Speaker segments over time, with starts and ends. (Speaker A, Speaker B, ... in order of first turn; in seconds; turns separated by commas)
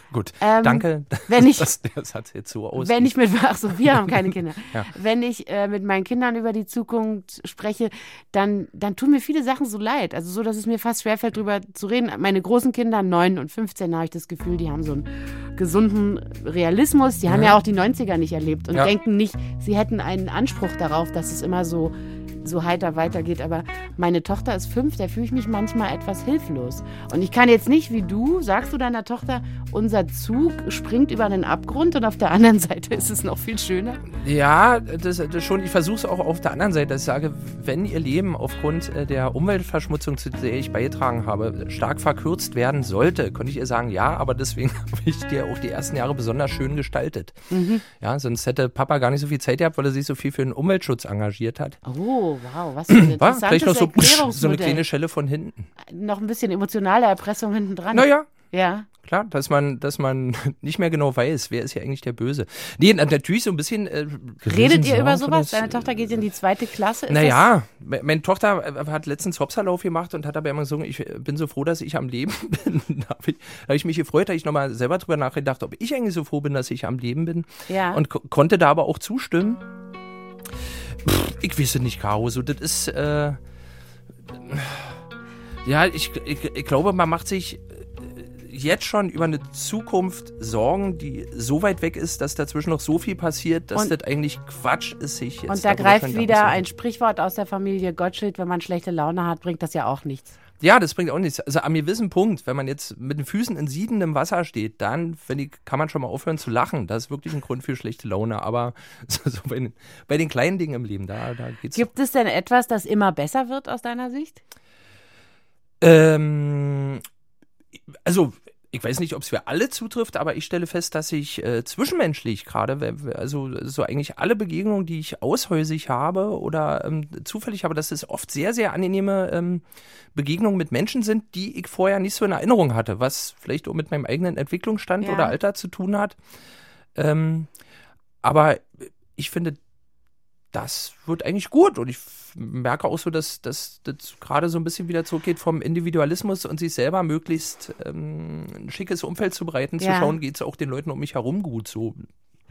Speaker A: 0.1-3.1, Speaker B: 0.4-1.7, Speaker B: 2.8-34.0, Speaker A: 3.7-4.9, Speaker A: 17.3-17.5, Speaker A: 34.1-51.8, Speaker B: 47.5-47.8, Speaker B: 51.8-54.8, Speaker A: 52.9-55.7, Speaker B: 55.9-58.9, Speaker A: 57.9-58.3, Speaker A: 59.0-66.2, Speaker B: 64.5-67.5, Speaker A: 67.1-79.6, Speaker B: 77.7-78.0, Speaker A: 80.9-83.4, Speaker A: 84.3-85.0, Speaker A: 85.6-96.6, Speaker B: 95.5-100.3, Speaker A: 100.6-111.9, Speaker B: 111.7-114.4, Speaker A: 115.8-117.0, Speaker A: 117.9-136.2, Speaker B: 135.0-135.3, Speaker A: 136.9-137.5, Speaker A: 138.2-139.6, Speaker A: 140.5-152.1, Speaker B: 149.8-150.2